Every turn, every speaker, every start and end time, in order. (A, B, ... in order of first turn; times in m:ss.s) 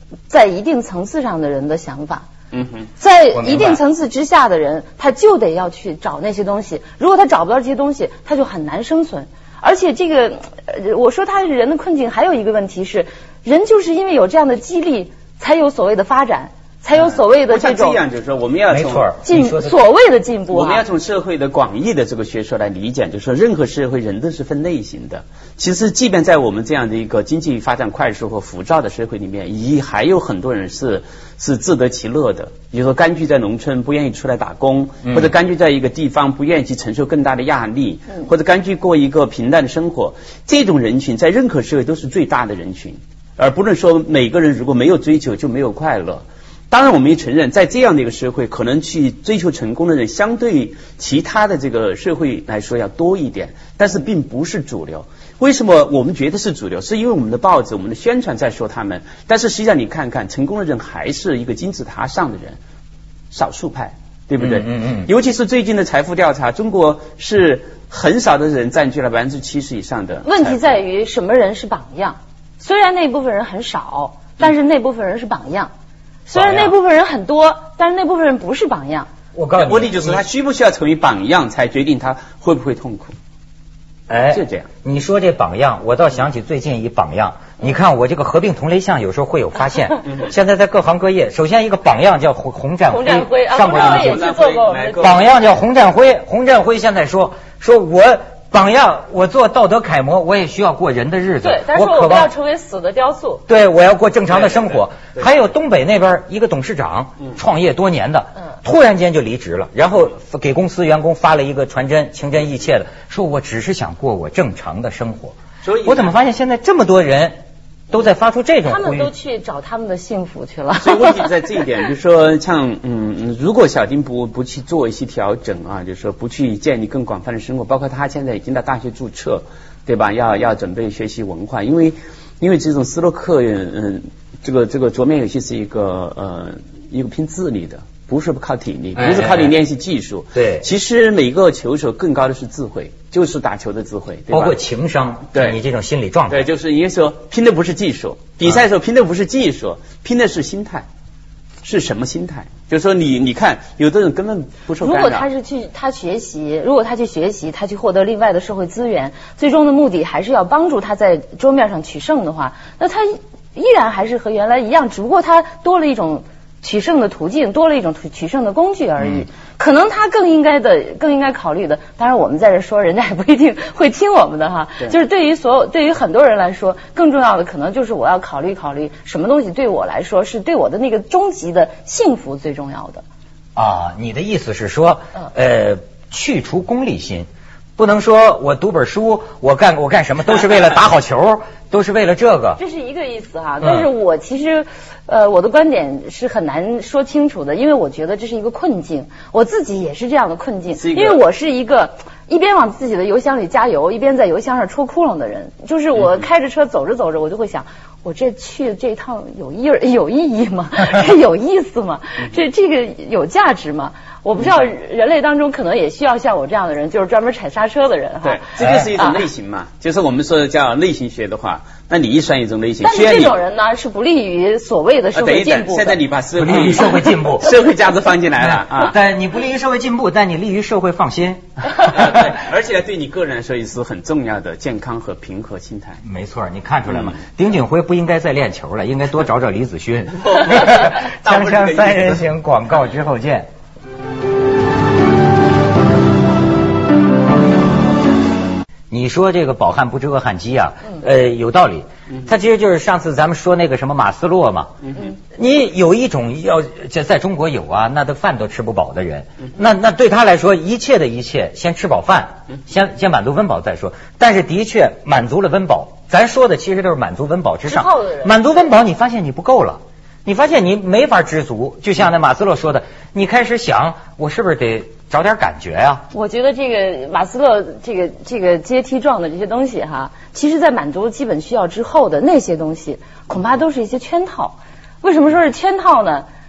0:00.3-0:02.3 A
0:02.5-0:02.9 B
0:03.0-0:18.0 A
0:03.3-0:03.8 C
0:17.0-0:19.1 B
0:18.7-0:19.8 C
0:19.2-0:20.8 A
0:20.5-1:02.6 B
1:03.3-1:10.8 B
1:04.4-1:05.1 C
1:10.2-1:15.7 A
1:16.3-1:19.1 A
1:16.3-1:16.8 C
1:19.3-1:20.2 C
1:19.6-1:23.2 B
1:24.1-1:34.3 C
1:24.3-1:24.7 B
1:32.9-1:35.2 A
1:33.7-1:35.3 B
1:35.0-1:42.3 C
1:41.4-1:43.4 A
1:43.5-1:57.4 C
1:44.3-1:45.2 B
1:55.6-1:56.1 B
1:57.9-1:59.1 C
1:58.6-2:01.3 A
2:00.8-2:24.6 B
2:19.0-2:19.6 C
2:20.4-2:20.7 C
2:24.3-2:26.5 C
2:25.3-2:25.6 B
2:26.3-2:30.9 B
2:31.6-2:35.3 B
2:34.8-3:03.0 A
3:03.6-3:12.6 C
3:12.6-3:38.4 A
3:13.6-3:13.9 C
3:20.8-3:21.2 B
3:38.2-3:43.4 B
3:38.6-3:38.9 C
3:39.0-3:39.2 A
3:42.8-3:46.0 A
3:45.1-3:49.0 B
3:46.4-3:47.6 C
3:48.4-3:52.3 C
3:51.8-3:56.0 B
3:56.0-4:03.5 C
4:00.3-4:02.3 B
4:08.9-4:36.0 C
4:27.7-4:28.5 A
4:36.1-4:46.3 A